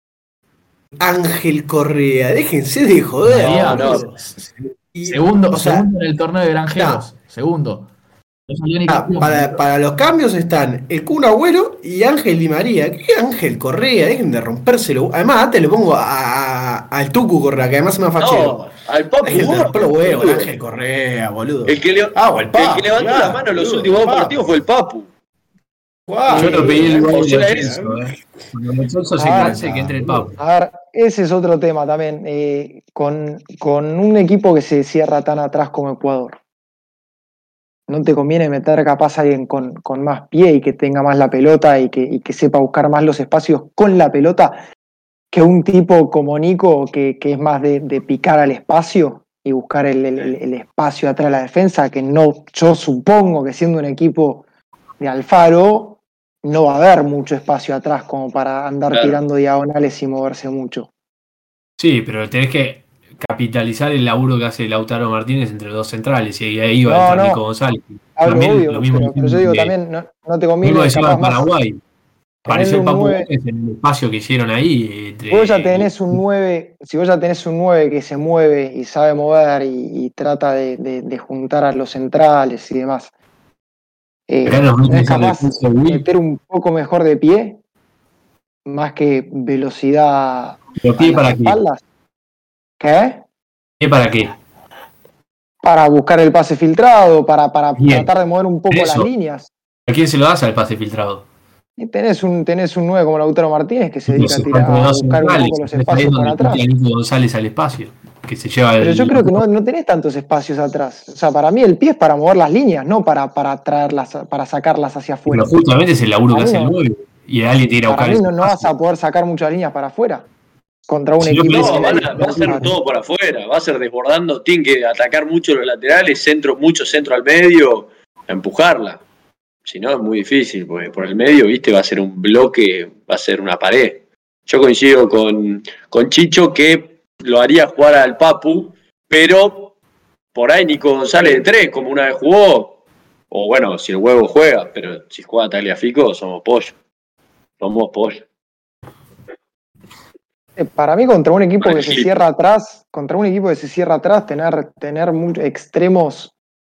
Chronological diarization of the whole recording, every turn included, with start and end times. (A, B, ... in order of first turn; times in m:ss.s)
0:01.0-0:04.2 A
0:03.2-0:07.9 B
0:03.4-0:04.0 C
0:04.9-0:05.9 A
0:06.8-0:07.1 A
0:08.5-0:09.6 B
0:08.9-0:18.7 A
0:18.2-0:20.5 C
0:19.2-0:24.4 A
0:21.7-0:25.0 C
0:26.1-0:27.9 A
0:26.3-0:26.9 D
0:26.3-0:30.3 E
0:26.9-0:27.8 C
0:29.2-0:29.6 D
0:29.6-0:29.9 B
0:30.0-0:30.3 A
0:30.4-0:36.4 D
0:37.9-0:44.6 D
0:45.3-0:54.4 D
0:55.0-1:00.9 D
0:58.9-0:59.2 C
1:01.8-1:09.7 E
1:06.8-1:07.4 D
1:08.2-1:11.5 D
1:10.6-1:11.8 E
1:12.4-1:16.1 E
1:12.5-1:13.3 D
1:15.3-1:23.1 D
1:24.3-1:27.6 D
1:24.4-1:26.1 E
1:28.6-1:31.8 D
1:30.8-1:31.6 E
1:32.8-1:33.2 D
1:33.8-1:34.4 E
1:35.6-1:39.5 D
1:37.8-1:38.1 E
1:38.7-1:39.1 E
1:39.9-1:41.2 E
1:41.8-1:46.6 D
1:44.1-1:49.4 E
1:48.8-1:55.5 D
1:55.3-1:58.7 E
1:56.3-1:56.7 D
1:57.9-2:00.3 D
2:00.9-2:02.7 D
2:01.2-2:02.7 E
2:01.5-2:09.0 C
2:09.6-2:19.7 C
2:20.3-2:22.7 C
2:23.3-2:26.7 C
2:27.6-2:28.2 C
2:30.6-2:36.3 D
2:31.6-2:32.1 C